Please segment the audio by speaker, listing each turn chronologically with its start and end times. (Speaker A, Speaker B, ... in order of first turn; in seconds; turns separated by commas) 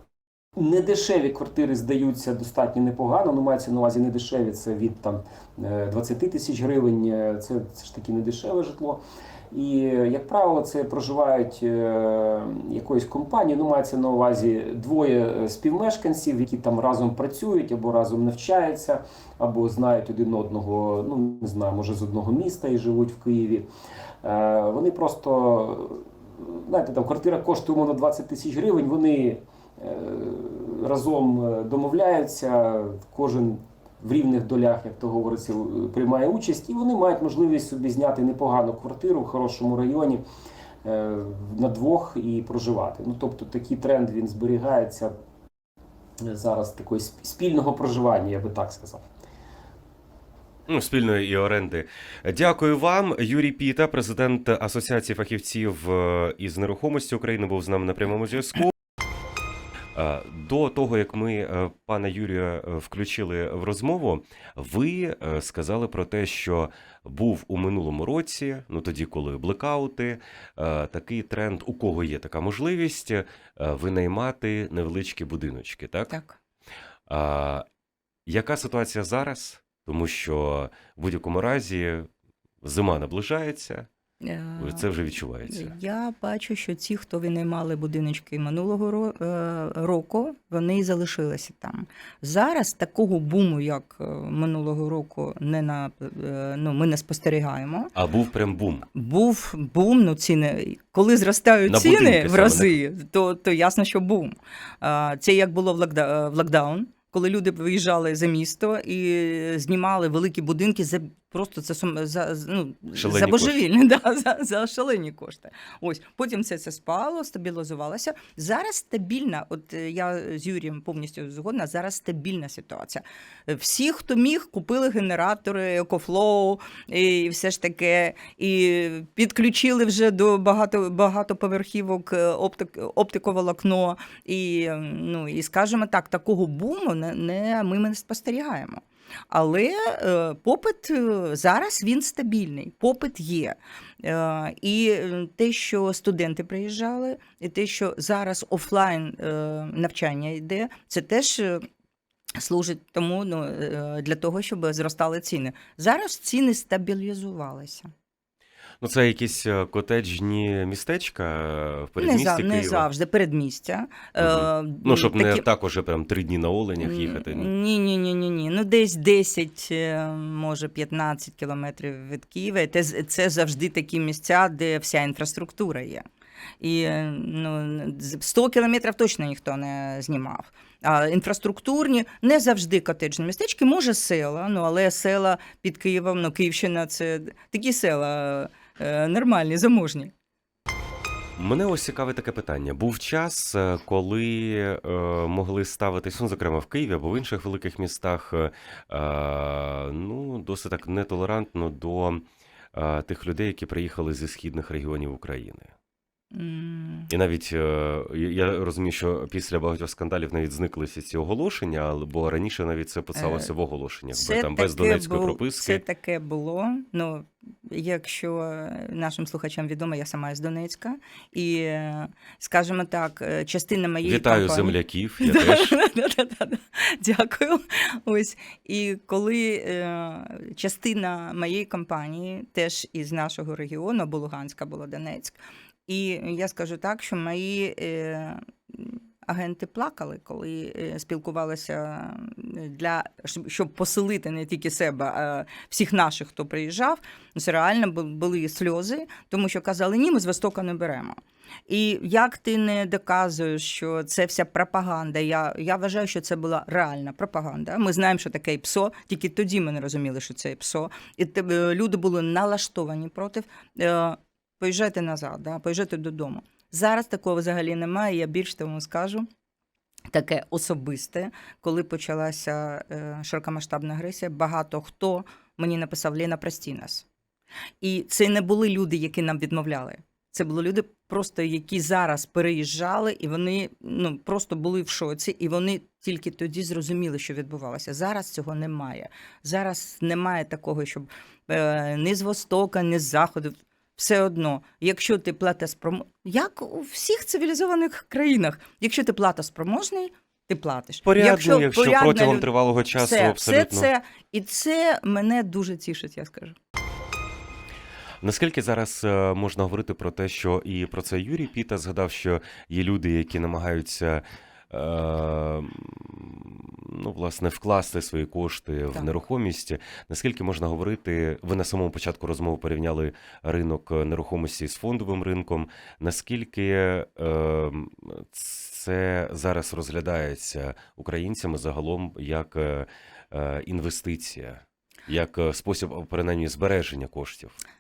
Speaker A: 0.6-23.7, Speaker A: 24.2-40.2, Speaker A: 40.8-45.1, Speaker A: 46.2-49.0, Speaker B: 50.7-58.7, Speaker B: 60.0-76.1, Speaker C: 76.1-76.4, Speaker B: 77.1-77.7, Speaker B: 78.3-82.1, Speaker B: 82.6-83.9, Speaker C: 84.2-84.9, Speaker B: 84.6-85.7, Speaker C: 85.5-97.9, Speaker B: 98.0-98.9, Speaker C: 98.9-151.7, Speaker B: 101.7-102.7, Speaker B: 112.9-113.6, Speaker C: 152.4-157.9, Speaker B: 158.8-162.9, Speaker C: 162.0-165.5, Speaker B: 164.2-167.5, Speaker C: 166.8-176.1, Speaker C: 176.6-190.1, Speaker B: 191.4-205.7, Speaker C: 206.3-207.1, Speaker B: 207.1-215.8, Speaker C: 213.2-213.5, Speaker C: 214.1-269.3, Speaker B: 224.0-225.8, Speaker C: 270.1-277.1, Speaker C: 277.8-306.6, Speaker B: 301.1-303.9, Speaker B: 308.2-337.6